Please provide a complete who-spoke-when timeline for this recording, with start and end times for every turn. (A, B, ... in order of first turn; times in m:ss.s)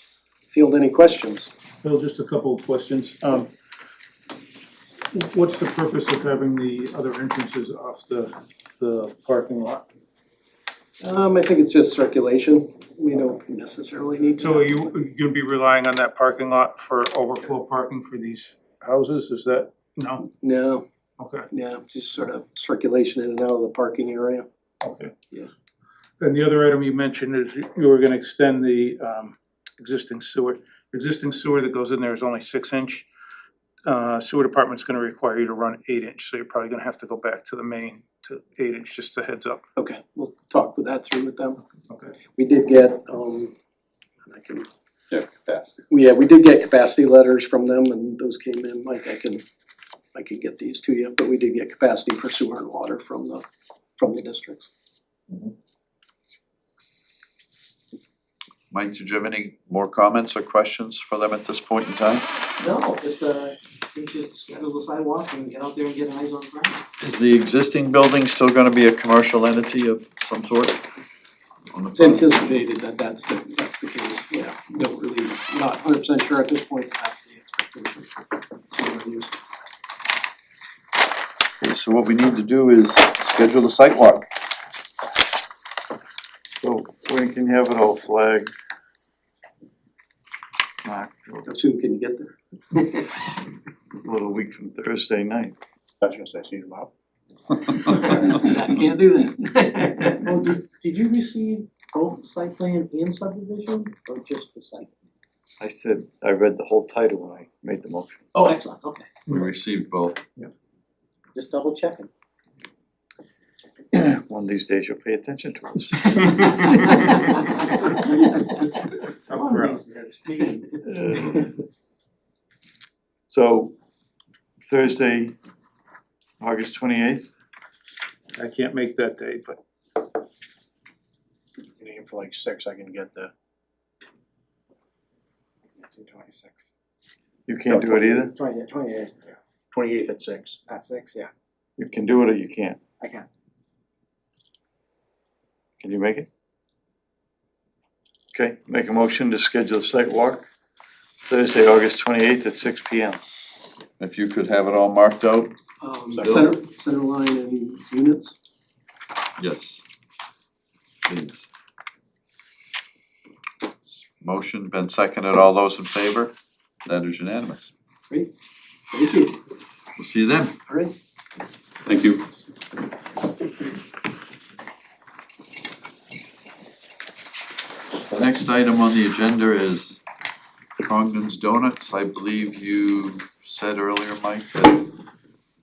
0:00.5-0:01.5 A
0:01.8-0:03.5 B
0:05.1-0:09.8 B
0:11.0-0:14.7 A
0:14.4-0:20.3 B
0:20.4-0:20.8 A
0:21.2-0:21.5 B
0:21.5-0:24.5 A
0:24.8-0:25.1 B
0:26.2-0:33.1 B
0:33.8-0:39.6 B
0:39.8-0:41.6 A
0:42.4-0:43.5 A
0:44.2-0:44.7 A
0:45.1-0:45.5 C
0:45.9-0:49.4 A
0:50.1-0:53.4 A
0:54.0-0:54.7 A
0:58.7-1:02.2 D
1:02.6-1:06.8 E
1:07.0-1:10.8 D
1:11.7-1:12.3 D
1:11.9-1:18.1 A
1:18.7-1:19.4 A
1:21.6-1:24.3 D
1:26.6-1:28.5 C
1:30.8-1:31.4 C
1:31.4-1:32.3 A
1:34.0-1:36.9 C
1:37.8-1:45.0 E
1:38.2-1:39.8 A
1:45.6-1:48.2 C
1:48.3-1:49.1 E
1:49.3-1:50.2 D
1:51.3-1:52.1 E
1:53.9-1:55.9 C
1:56.7-1:57.4 E
1:59.1-2:00.8 E
1:59.3-1:59.8 B
2:00.9-2:01.4 C
2:03.3-2:03.7 F
2:04.7-2:05.3 C
2:06.4-2:07.2 C
2:08.4-2:09.6 B
2:11.8-2:13.3 F
2:15.8-2:16.7 F
2:17.5-2:18.3 C
2:17.6-2:19.3 F
2:19.7-2:20.6 C
2:20.6-2:21.3 F
2:21.8-2:22.8 C
2:23.0-2:23.2 F
2:25.8-2:26.2 F
2:25.8-2:26.2 C
2:28.3-2:28.6 F
2:28.4-2:30.4 C
2:31.2-2:31.5 F
2:31.5-2:33.0 C
2:32.9-2:33.2 F
2:34.0-2:35.6 D
2:35.8-2:38.4 A
2:36.2-2:36.5 C
2:39.4-2:39.8 D
2:41.0-2:41.5 D
2:44.2-2:47.7 D
2:48.9-2:49.4 A
2:50.0-2:50.6 D
2:51.9-2:52.2 D
2:58.1-3:00.0 D
3:00.8-3:04.9 D